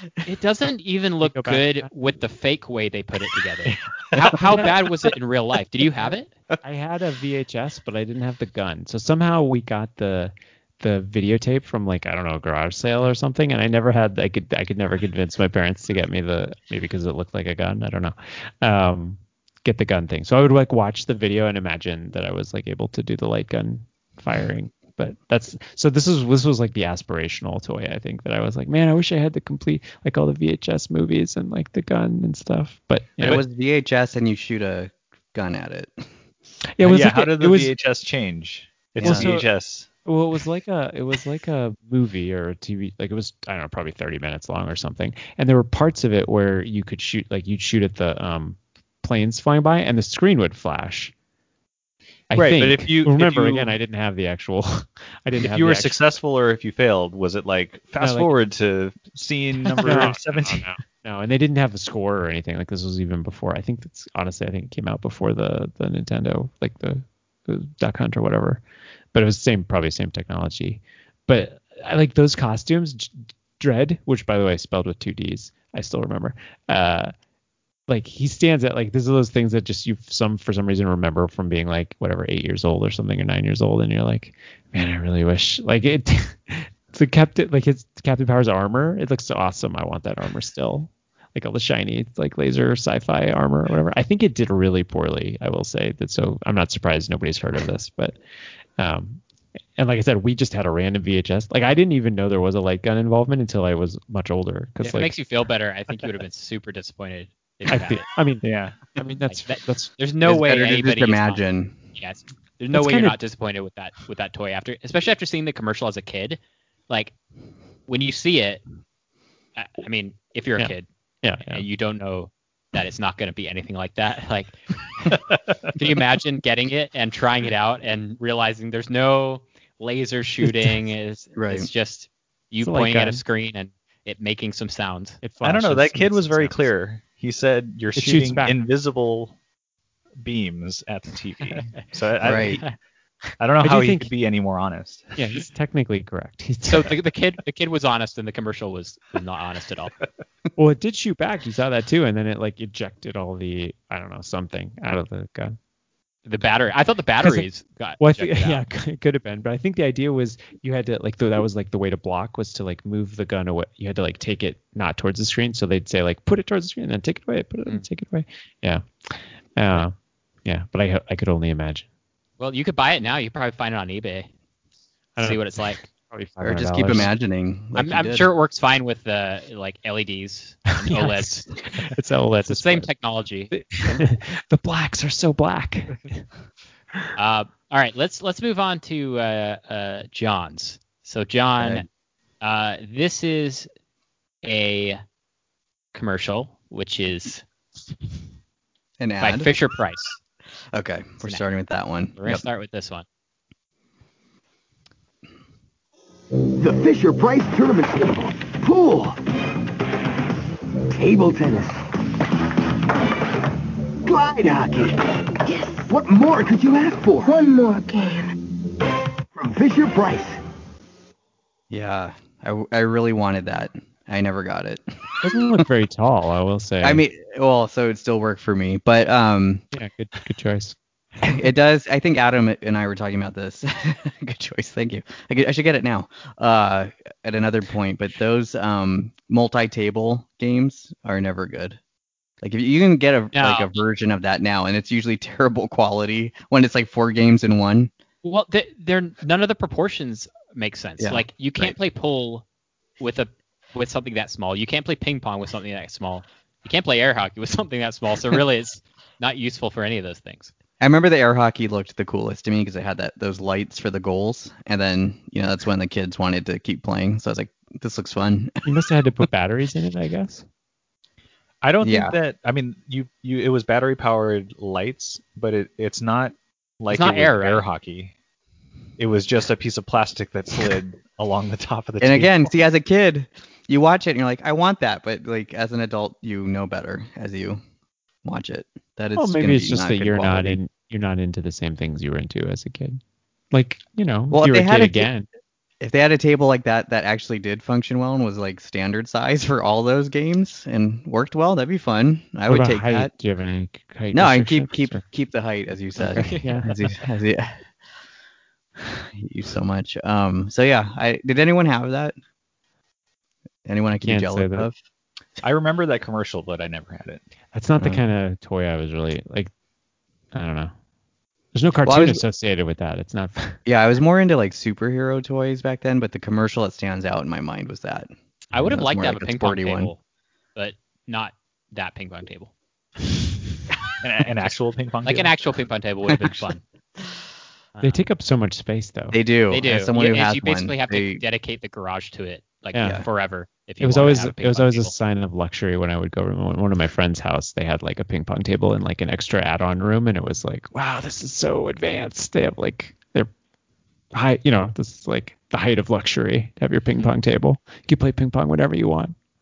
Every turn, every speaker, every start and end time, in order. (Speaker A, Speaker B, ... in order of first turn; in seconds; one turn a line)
Speaker A: 0.2-6.3
Speaker B: 1.2-1.9
Speaker B: 3.7-4.8
Speaker B: 6.6-33.4
Speaker C: 33.2-36.1
Speaker B: 36.8-37.7
Speaker D: 36.8-39.9
Speaker B: 39.0-39.5
Speaker C: 39.0-39.3
Speaker B: 40.0-51.1
Speaker B: 52.3-56.0
Speaker D: 52.3-53.7
Speaker D: 55.4-60.7
Speaker B: 58.0-58.3
Speaker B: 59.8-68.6
Speaker B: 69.1-77.1
Speaker B: 77.9-98.2
Speaker B: 98.8-99.2
Speaker B: 99.8-105.1
Speaker A: 104.8-108.1
Speaker B: 107.7-110.0
Speaker D: 108.4-108.8
Speaker A: 109.3-111.4
Speaker C: 110.2-111.8
Speaker A: 112.0-117.1
Speaker B: 112.7-113.2
Speaker A: 117.9-118.6
Speaker A: 119.6-120.9
Speaker B: 120.6-121.7
Speaker A: 121.5-124.6
Speaker A: 125.8-135.2
Speaker C: 131.4-131.7
Speaker B: 132.6-133.2
Speaker B: 135.2-136.7
Speaker D: 135.4-139.4
Speaker B: 137.9-138.6
Speaker D: 140.2-142.7
Speaker C: 142.2-142.6
Speaker D: 143.4-145.4
Speaker B: 143.6-144.1
Speaker B: 145.2-147.0
Speaker A: 146.7-149.9
Speaker B: 150.6-155.6
Speaker A: 156.3-158.6
Speaker B: 157.2-157.5
Speaker B: 158.0-169.9
Speaker B: 170.4-171.9
Speaker A: 172.4-174.3
Speaker B: 175.2-177.1
Speaker A: 175.2-175.8
Speaker C: 176.4-178.3
Speaker A: 177.8-181.5
Speaker B: 180.8-182.9
Speaker A: 182.4-184.0
Speaker B: 183.5-186.2
Speaker A: 187.2-191.9
Speaker C: 191.6-191.9
Speaker A: 192.4-193.7
Speaker A: 194.4-195.0
Speaker A: 195.9-197.4
Speaker C: 199.0-199.5
Speaker A: 199.2-200.2
Speaker C: 200.7-202.4
Speaker A: 202.2-203.1
Speaker E: 206.6-209.2
Speaker E: 210.9-211.8
Speaker E: 214.1-215.0
Speaker E: 215.9-217.5
Speaker E: 219.3-220.4
Speaker C: 221.7-225.6
Speaker B: 225.2-227.0
Speaker C: 226.8-229.6
Speaker B: 229.7-231.5
Speaker C: 231.2-241.8
Speaker C: 242.4-247.9
Speaker A: 243.3-243.8
Speaker A: 248.2-252.4
Speaker C: 251.0-251.8
Speaker A: 253.0-260.5
Speaker C: 260.8-268.6
Speaker B: 268.6-270.4
Speaker D: 271.6-278.1
Speaker C: 271.8-272.1
Speaker A: 276.9-277.6
Speaker D: 279.0-282.5
Speaker C: 282.0-287.6
Speaker C: 288.2-290.6
Speaker B: 289.1-293.0
Speaker B: 293.5-295.3
Speaker C: 294.3-295.1
Speaker C: 295.8-303.1
Speaker B: 302.5-305.0
Speaker C: 304.1-307.7
Speaker A: 306.1-306.6
Speaker B: 306.2-306.8
Speaker C: 308.8-312.1
Speaker C: 313.7-314.8
Speaker B: 314.0-314.7
Speaker D: 315.4-317.2
Speaker B: 317.5-319.5
Speaker B: 320.3-320.7
Speaker B: 321.5-323.6
Speaker C: 321.9-322.2
Speaker C: 323.7-329.9
Speaker A: 328.5-330.0
Speaker A: 330.6-332.5
Speaker D: 334.0-335.4
Speaker A: 335.1-336.6
Speaker C: 336.1-336.4
Speaker A: 337.8-338.1
Speaker B: 337.8-339.2
Speaker C: 339.1-341.2
Speaker A: 339.5-344.9
Speaker B: 342.8-343.1
Speaker B: 343.8-353.3
Speaker B: 354.1-359.2